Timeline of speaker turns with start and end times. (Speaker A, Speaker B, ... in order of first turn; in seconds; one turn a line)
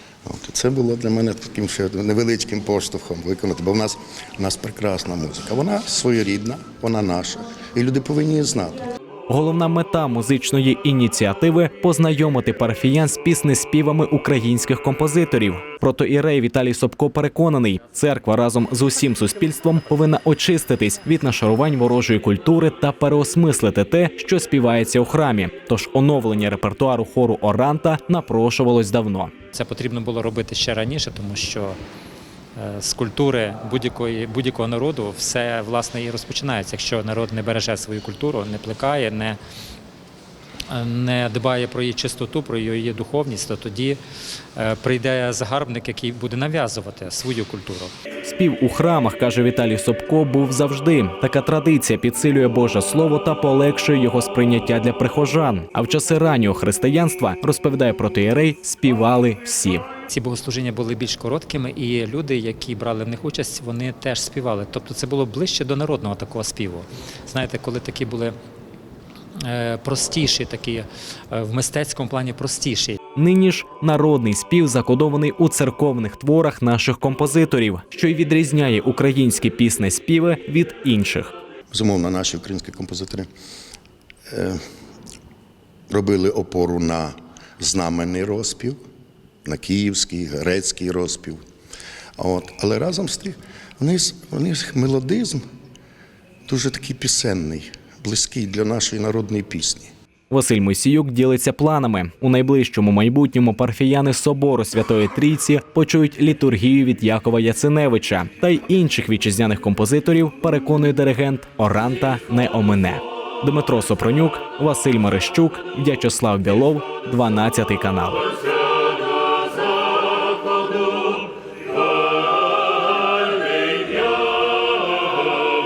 Speaker A: 0.3-8.8
Speaker B: 9.3-29.3
Speaker C: 29.5-31.8
Speaker C: 32.6-39.4
Speaker C: 40.7-44.0
Speaker C: 44.6-47.9
Speaker B: 48.2-59.9
Speaker C: 60.1-68.3
Speaker C: 69.4-73.0
Speaker B: 73.2-81.3
Speaker A: 81.7-83.3
Speaker A: 84.3-84.6
Speaker A: 85.9-88.8
Speaker A: 89.5-91.4
Speaker A: 92.2-95.4
Speaker A: 96.5-99.9
Speaker B: 100.3-118.3